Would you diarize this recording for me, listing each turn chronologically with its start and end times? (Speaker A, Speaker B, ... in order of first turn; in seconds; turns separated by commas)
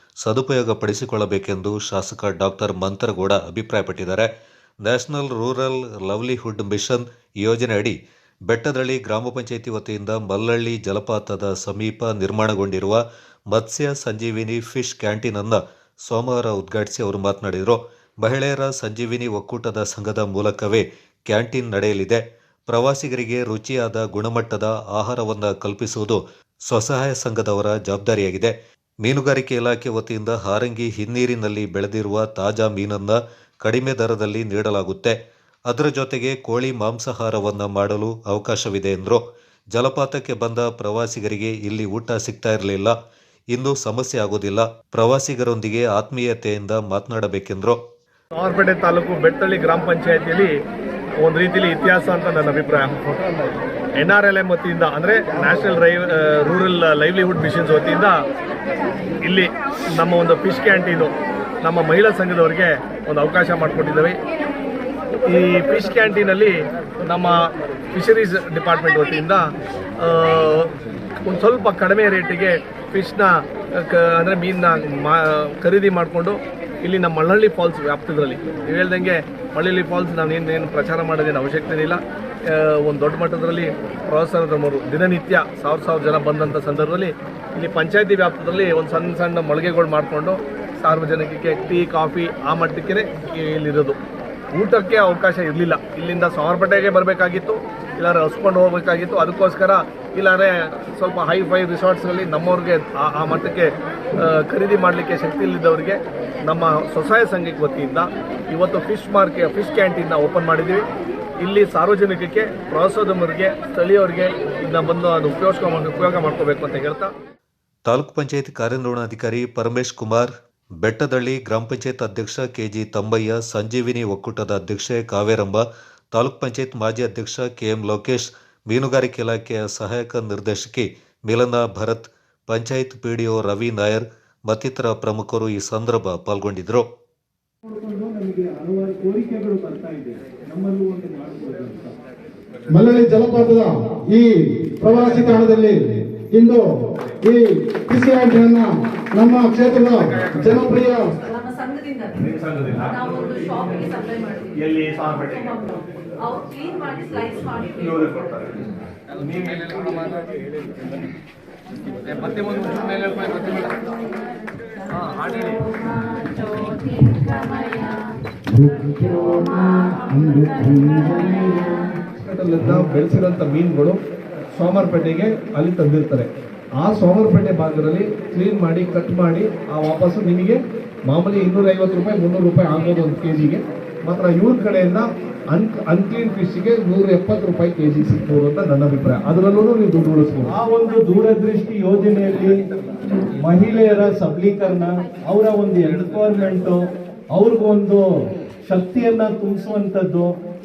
Speaker A: 0.2-4.3, Speaker A: 4.8-8.0, Speaker A: 8.5-28.5, Speaker A: 29.0-35.1, Speaker A: 35.7-39.2, Speaker A: 39.7-42.9, Speaker A: 43.5-47.8, Speaker B: 48.4-50.5, Speaker B: 51.2-53.1, Speaker B: 54.0-58.2, Speaker B: 59.2-64.2, Speaker B: 65.2-67.4, Speaker B: 67.9-69.4, Speaker B: 70.0-70.7, Speaker B: 71.2-94.0, Speaker B: 94.5-110.8, Speaker B: 111.4-117.1, Speaker A: 117.9-120.3, Speaker A: 120.8-136.8, Speaker C: 137.7-141.9, Speaker D: 142.7-151.2, Speaker E: 151.2-152.2, Speaker B: 152.2-153.6, Speaker E: 152.9-154.6, Speaker B: 154.6-155.8, Speaker E: 156.2-157.9, Speaker B: 157.6-158.6, Speaker B: 159.2-160.4, Speaker B: 162.1-163.8, Speaker B: 165.0-165.6, Speaker E: 165.8-167.9, Speaker D: 168.5-171.8, Speaker B: 172.2-174.0, Speaker B: 174.5-176.3, Speaker B: 176.8-180.6, Speaker B: 181.1-190.6, Speaker C: 190.5-192.6, Speaker C: 193.4-196.8, Speaker C: 197.3-198.0, Speaker C: 198.7-200.3